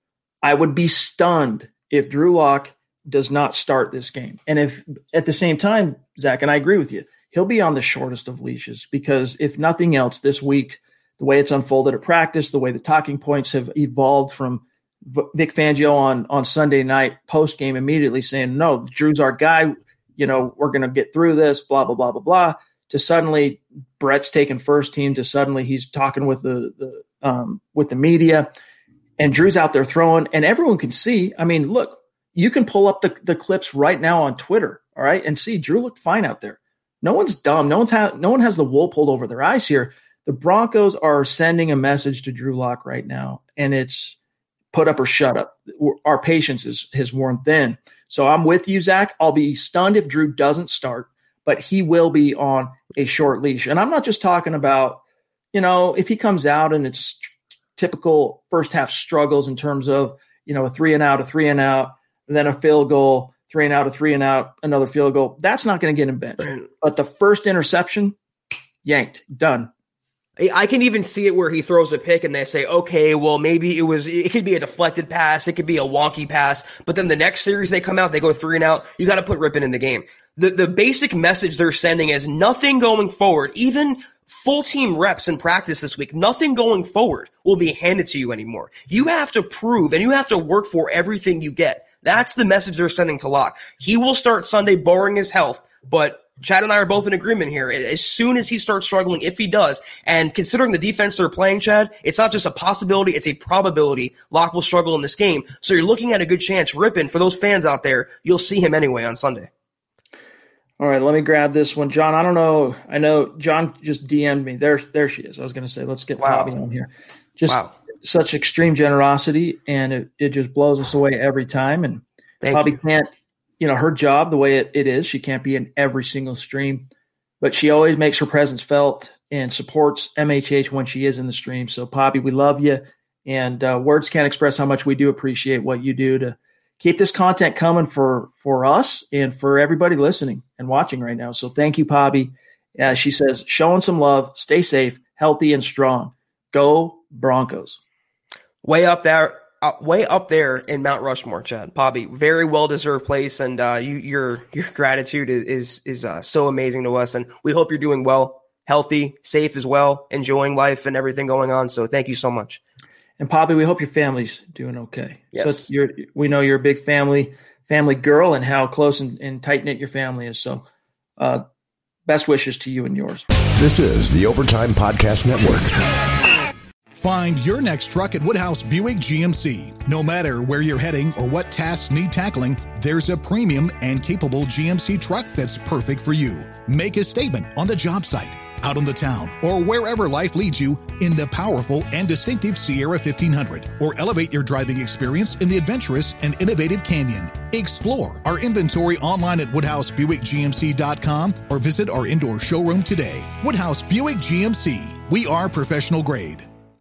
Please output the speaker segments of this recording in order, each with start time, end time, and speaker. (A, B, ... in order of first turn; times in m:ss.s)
0:00.4-0:28.5 A
0:29.2-0:44.2 A
0:44.7-0:55.0 A
0:55.5-1:08.2 A
1:08.8-1:09.7 A
1:10.4-1:49.5 B
1:50.8-2:06.9 A
1:56.2-1:56.5 B
1:57.5-1:57.7 B
2:02.4-2:02.8 B
2:07.4-2:27.8 A
2:28.6-2:42.6 B
2:43.2-2:50.6 A
2:45.3-2:45.7 B
2:51.2-2:51.4 A
2:52.0-2:53.2 A
2:53.4-2:56.0 C
2:56.9-3:26.5 D